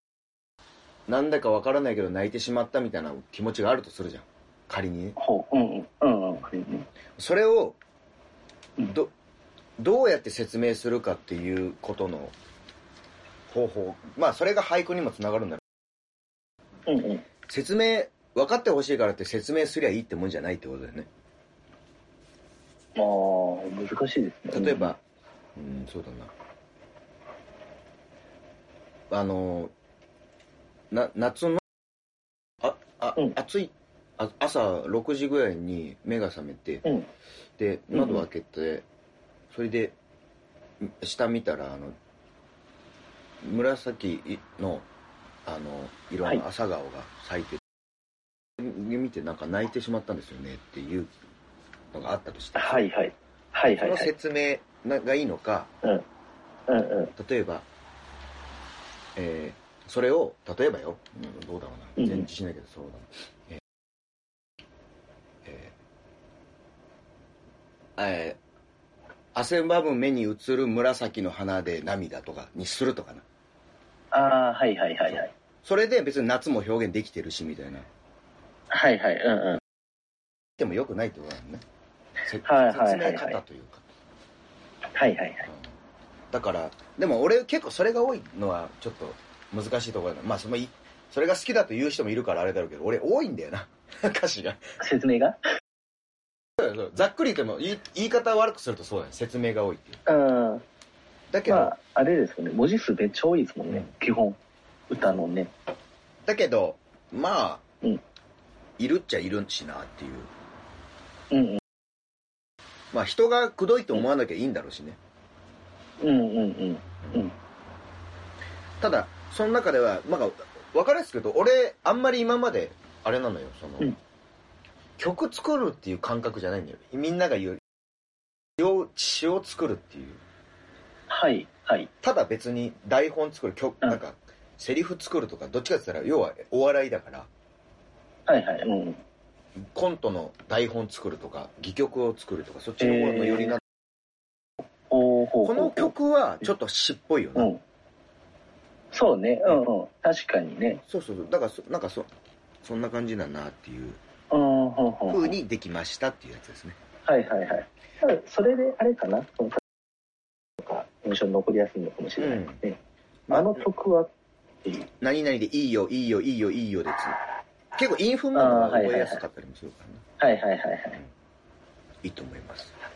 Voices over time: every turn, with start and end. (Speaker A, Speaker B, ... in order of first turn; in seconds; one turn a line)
Speaker A: 1.1-5.2
Speaker B: 5.2-6.9
Speaker A: 7.2-7.8
Speaker A: 8.8-9.1
Speaker A: 9.8-12.3
Speaker A: 13.5-15.6
Speaker B: 16.9-17.2
Speaker A: 17.5-21.1
Speaker B: 22.9-24.9
Speaker A: 24.5-25.0
Speaker A: 25.5-26.3
Speaker A: 29.1-29.7
Speaker A: 30.9-31.6
Speaker A: 32.6-36.8
Speaker A: 37.6-38.9
Speaker B: 37.9-38.2
Speaker A: 39.5-39.9
Speaker A: 40.8-42.0
Speaker A: 43.4-44.9
Speaker A: 45.5-47.6
Speaker A: 48.6-51.1
Speaker A: 51.9-52.9
Speaker B: 52.6-54.1
Speaker A: 53.7-55.7
Speaker B: 56.7-57.1
Speaker A: 57.1-57.6
Speaker A: 59.1-63.6
Speaker B: 62.0-62.3
Speaker A: 65.4-65.7
Speaker A: 68.0-68.4
Speaker A: 69.3-73.2
Speaker B: 74.1-75.3
Speaker A: 75.6-77.9
Speaker B: 78.7-79.6
Speaker A: 80.6-81.6
Speaker A: 82.2-83.8
Speaker B: 82.4-83.4
Speaker B: 84.9-85.5
Speaker A: 86.3-94.7
Speaker B: 94.8-95.4
Speaker A: 96.6-100.0
Speaker B: 100.0-100.6
Speaker A: 101.3-101.7
Speaker B: 101.5-104.4
Speaker B: 104.9-105.5
Speaker A: 106.2-107.6
Speaker A: 108.8-110.3
Speaker B: 111.3-111.6
Speaker A: 112.9-115.0
Speaker B: 116.0-117.3
Speaker A: 118.8-123.9
Speaker A: 125.0-127.6
Speaker A: 128.6-130.2
Speaker B: 131.1-131.9
Speaker A: 132.0-137.3
Speaker B: 138.3-139.0
Speaker A: 139.6-143.6
Speaker B: 142.8-143.6
Speaker B: 144.9-145.9
Speaker A: 145.4-147.5
Speaker B: 147.3-147.6
Speaker B: 148.9-150.8
Speaker A: 150.9-152.1
Speaker A: 152.6-154.0
Speaker B: 154.3-155.3
Speaker A: 155.1-156.8
Speaker B: 157.0-159.6
Speaker B: 160.6-162.8
Speaker A: 162.2-162.6
Speaker A: 163.3-163.6
Speaker B: 163.3-164.1
Speaker A: 165.0-167.2
Speaker A: 167.7-170.0
Speaker B: 168.3-169.2
Speaker B: 170.2-171.0
Speaker A: 172.0-172.7